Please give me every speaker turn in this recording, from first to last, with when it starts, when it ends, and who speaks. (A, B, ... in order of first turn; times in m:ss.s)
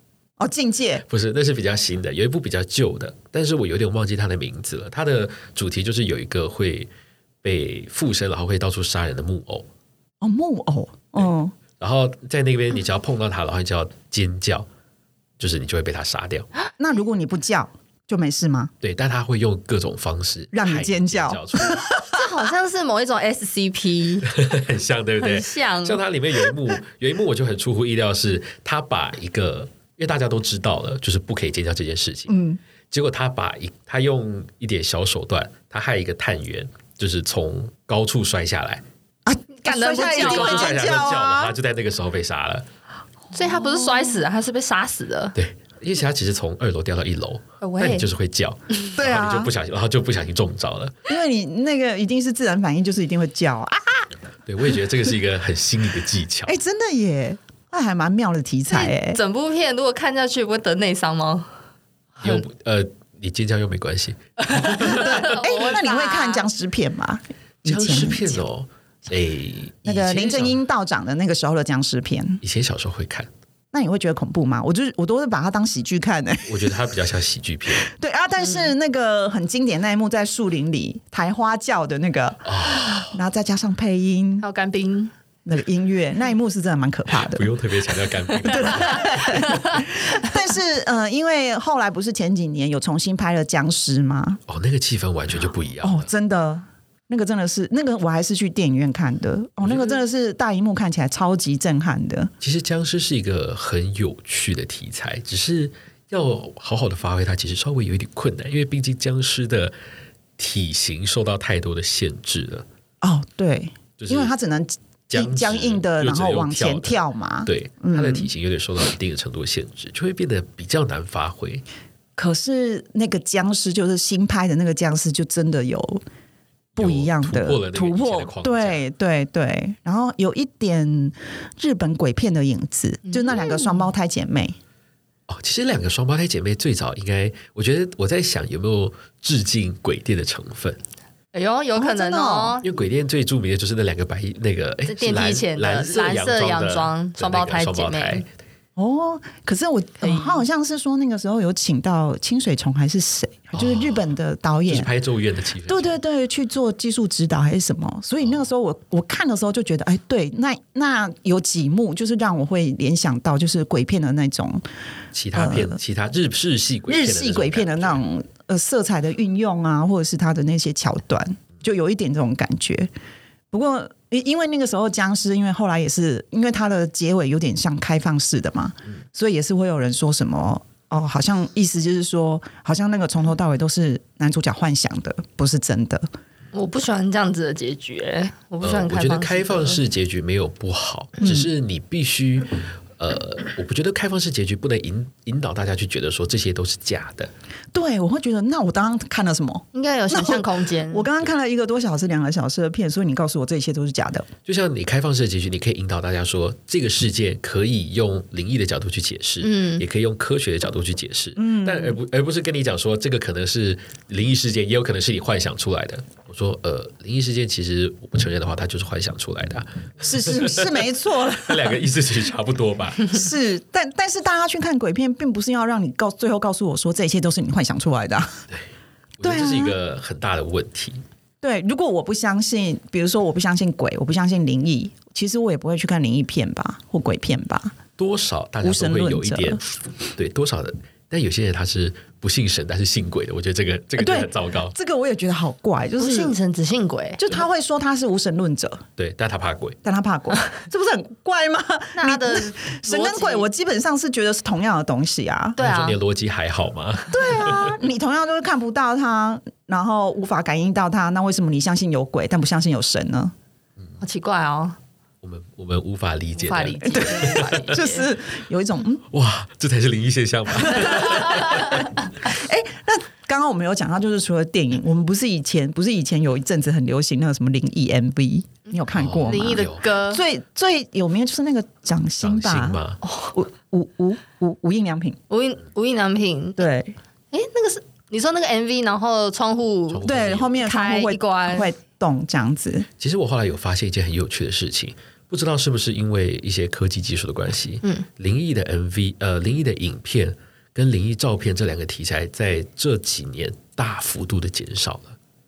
0:00.4-0:01.0 A
0:01.1-0:06.9 B
0:07.4-0:09.6 B
0:10.2-0:11.5 A
0:11.8-0:14.7 B
0:15.4-0:16.5 B
0:16.8-0:18.7 A
0:18.8-0:21.9 B
0:20.5-0:22.2 A
0:22.1-0:24.3 C
0:24.2-0:32.3 B
0:25.2-0:26.0 C
0:32.3-0:32.6 A
0:32.9-0:38.8 B
0:39.2-0:41.6 A
0:39.6-0:40.8 C
0:40.1-0:42.6 B
0:43.3-0:45.3 C
0:45.4-0:51.0 B
0:47.6-0:48.0 C
0:49.0-0:49.5 A
0:51.1-0:54.1 A
0:54.4-0:56.5 B
0:56.4-0:59.2 A
0:58.7-1:01.5 C
1:02.2-1:05.2 B
1:04.4-1:06.4 C
1:04.8-1:08.4 A
1:07.6-1:10.6 B
1:09.8-1:12.4 A
1:12.4-1:13.3 B
1:13.7-1:16.8 A
1:16.5-1:17.8 B
1:17.8-1:24.4 A
1:22.4-1:23.2 B
1:24.4-1:25.1 C
1:25.4-1:27.5 A
1:27.2-1:29.8 B
1:28.4-1:34.4 A
1:34.5-1:36.1 B
1:35.8-1:42.3 A
1:39.6-1:40.0 B
1:42.4-1:49.7 B
1:50.4-1:52.6 B
1:53.0-1:58.3 A
1:54.0-1:54.3 B
1:55.1-2:01.6 B
2:02.2-2:06.0 A
2:06.8-2:14.6 A
2:06.8-2:08.8 B
2:13.0-2:13.9 C
2:15.3-2:20.8 B
2:21.3-2:22.6 C
2:21.8-2:22.6 A
2:22.6-2:28.3 B
2:24.8-2:28.2 C
2:28.8-2:34.9 A
2:30.0-2:30.4 C
2:33.5-2:34.1 B
2:34.7-2:36.0 B
2:35.7-2:44.6 A
2:45.1-2:48.0 B
2:45.3-2:45.8 A
2:46.9-2:52.9 A
2:53.5-3:06.0 A
3:06.5-3:09.8 C
3:08.6-3:17.3 B
3:11.2-3:11.5 A
3:17.7-3:24.3 A
3:19.7-3:21.1 C
3:24.4-3:43.2 B
3:29.4-3:29.8 C
3:31.4-3:32.0 A
3:40.0-3:41.8 A
3:43.1-3:48.4 A
3:49.2-3:51.0 B
3:49.2-3:49.8 A
3:51.4-3:57.8 A
3:58.0-4:04.7 B
3:58.6-3:59.6 A
4:04.0-4:06.4 A
4:06.0-4:07.2 C
4:07.2-4:08.8 A
4:09.0-4:09.8 B
4:09.8-4:15.6 A
4:11.9-4:13.5 C
4:15.6-4:16.0 C
4:15.6-4:17.7 B
4:17.1-4:23.3 A
4:24.0-4:24.8 C
4:25.2-4:27.6 B
4:26.4-4:28.1 C
4:26.9-4:29.0 A
4:29.1-4:31.9 B
4:32.2-4:42.8 A
4:38.7-4:40.2 C
4:38.9-4:39.8 B
4:42.2-4:43.0 B
4:43.0-4:43.3 C
4:43.3-4:45.2 A
4:45.3-4:46.7 C
4:46.6-4:47.0 A
4:47.3-4:51.7 C
4:49.9-4:50.6 B
4:50.0-4:52.9 A
4:53.0-5:05.2 B